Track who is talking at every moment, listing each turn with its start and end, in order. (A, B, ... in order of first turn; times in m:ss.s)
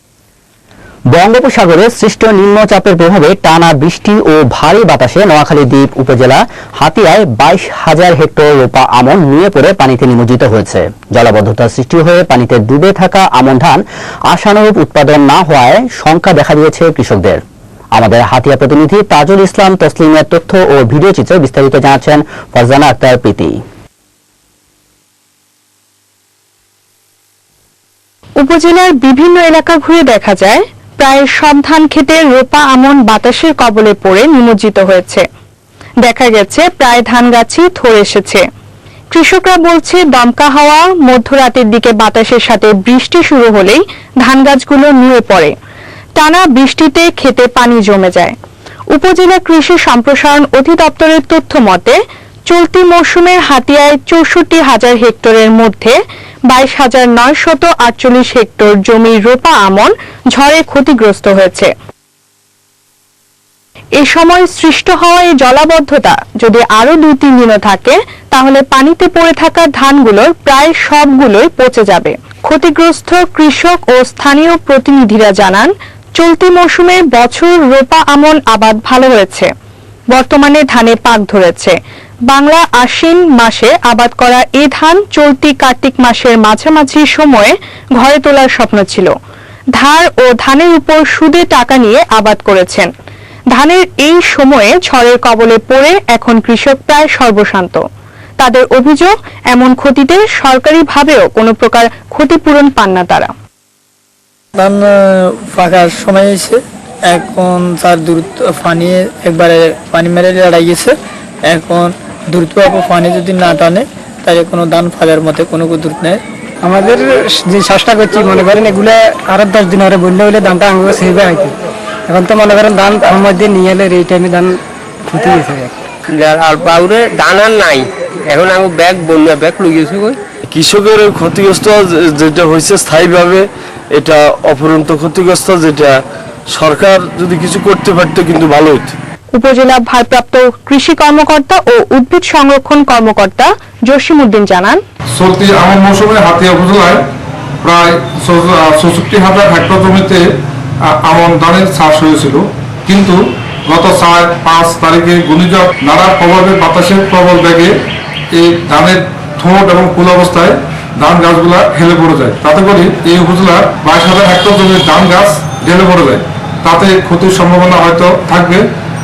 0:01.1-0:17.4 A
0:17.9-0:23.6 A
0:28.4-0:35.2 B
0:36.0-0:38.4 B
0:39.1-0:45.5 B
0:46.2-0:48.3 B
0:48.9-0:56.0 B
0:56.5-1:01.7 B
1:04.0-1:19.5 B
1:20.1-1:21.8 B
1:22.3-1:29.1 B
1:29.8-1:32.9 B
1:33.5-1:37.8 B
1:38.4-1:43.3 B
1:44.6-1:51.0 C
1:51.5-1:56.2 C
1:56.6-2:01.5 D
2:02.1-2:04.5 D
2:05.1-2:05.7 D
2:06.1-2:10.2 E
2:10.5-2:16.0 F
2:16.5-2:18.9 F
2:19.3-2:24.8 B
2:25.2-2:27.0 G
2:27.6-2:30.2 G
2:31.0-2:37.7 G
2:38.3-2:48.6 G